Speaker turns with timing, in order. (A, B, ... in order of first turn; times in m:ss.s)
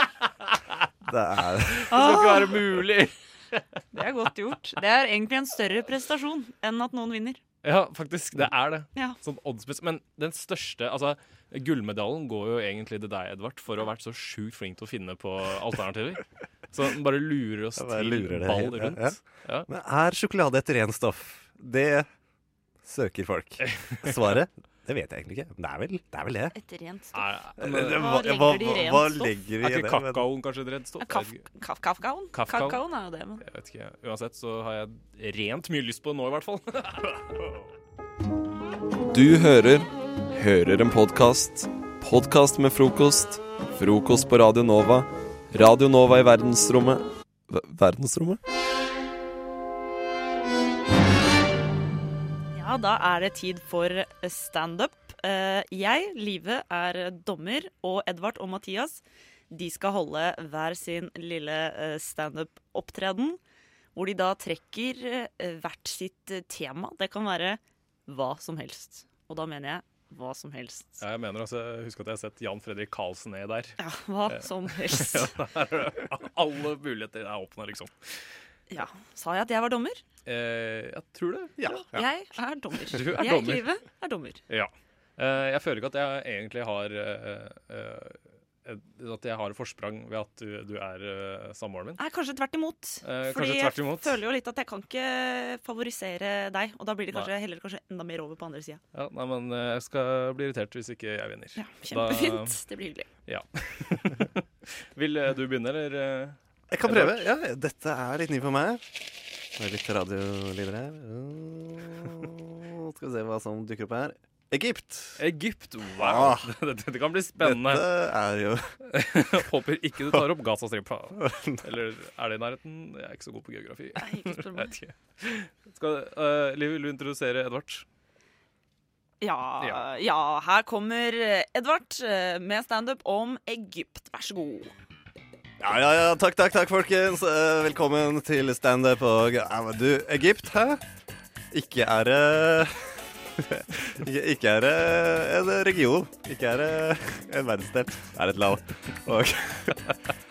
0:01.0-0:01.9 A
0:01.8-0:03.6 B
0:01.9-0:02.6 C
0:03.9-0:07.4 C
0:07.6-0:19.7 B
0:08.9-0:09.2 C
0:17.8-0:22.1 A
0:22.8-0:26.5 A
0:23.6-0:24.4 B
0:26.5-0:29.3 C
0:27.1-0:28.6 B
0:27.6-0:30.3 A
0:29.6-0:31.5 B
0:31.0-0:33.4 C
0:32.3-0:32.8 B
0:33.4-0:37.2 B
0:39.1-0:48.4 D
0:52.5-1:03.4 C
1:03.9-1:11.0 C
1:11.0-1:13.8 B
1:13.8-1:15.3 C
1:14.3-1:18.2 B
1:18.7-1:20.0 C
1:20.2-1:21.8 B
1:21.6-1:22.0 A
1:21.9-1:24.4 C
1:22.8-1:23.8 B
1:24.5-1:32.0 B
1:32.0-1:38.8 C
1:33.0-1:34.2 B
1:38.9-1:42.6 B
1:41.6-1:43.1 C
1:43.2-1:47.2 B
1:46.7-1:48.8 A
1:49.6-1:55.2 A
1:55.2-1:57.8 B
1:55.9-1:56.5 A
1:57.4-1:58.7 A
1:58.9-2:07.8 B
2:01.1-2:01.6 A
2:04.0-2:04.8 C
2:09.2-2:14.7 C
2:09.6-2:09.8 B
2:15.6-2:20.8 A
2:21.5-2:22.7 A
2:23.4-2:29.8 A